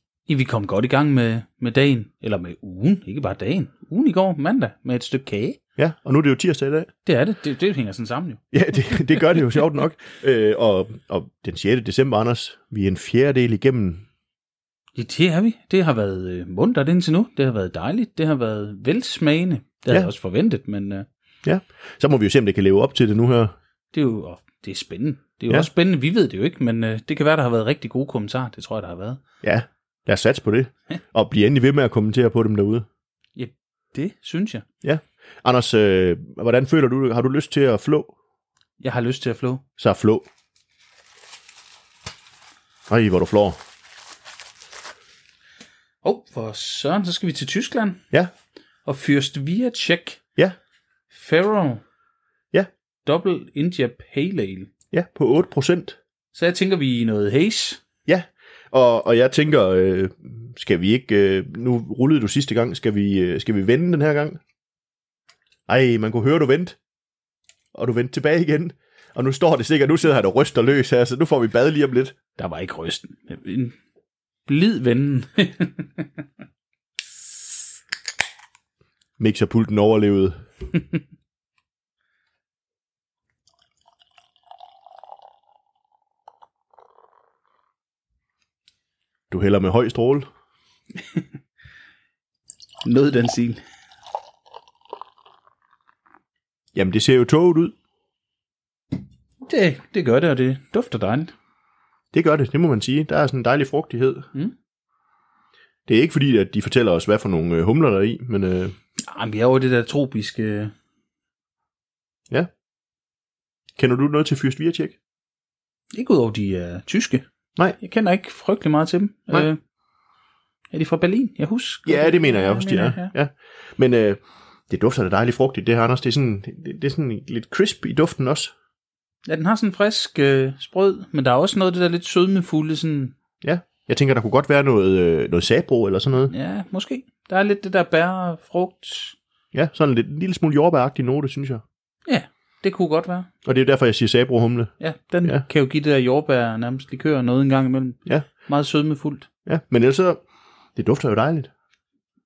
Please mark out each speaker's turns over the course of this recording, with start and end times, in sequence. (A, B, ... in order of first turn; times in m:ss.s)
0:00.3-0:05.6 A
0:05.8-0:06.9 B
0:07.0-0:09.0 A
0:08.5-0:14.0 B
0:15.0-0:21.0 A
0:21.4-0:23.5 B
0:23.9-0:29.2 A
0:29.4-0:32.8 B
0:33.4-0:34.6 A
0:34.8-0:38.1 B
0:38.8-0:39.6 A
0:39.8-0:40.2 B
0:42.9-0:43.6 B
0:46.0-0:48.0 A
0:48.9-0:50.2 A
0:51.1-0:51.8 A
0:53.0-0:54.7 A
0:54.9-0:56.0 B
0:56.3-0:57.8 A
0:58.1-1:04.4 B
1:05.7-1:06.8 B
1:07.7-1:12.2 B
1:12.4-1:13.8 A
1:14.5-1:16.2 A
1:19.2-1:20.4 B
1:29.3-1:30.2 B
1:32.8-1:33.6 A
1:36.8-1:37.7 B
1:39.5-1:41.3 A
1:42.1-1:44.3 B
1:45.9-1:48.7 B
1:49.0-1:50.7 A
1:53.8-1:55.0 B
1:55.9-1:57.2 A
1:57.8-1:59.6 A
2:00.7-2:03.1 A
2:01.9-2:08.5 B
2:09.2-2:13.2 A
2:13.4-2:16.3 B
2:16.3-2:19.2 A
2:19.5-2:21.6 B
2:22.1-2:23.3 A
2:23.4-2:24.7 B
2:24.8-2:29.3 A
2:29.5-2:30.2 B
2:30.8-2:31.5 B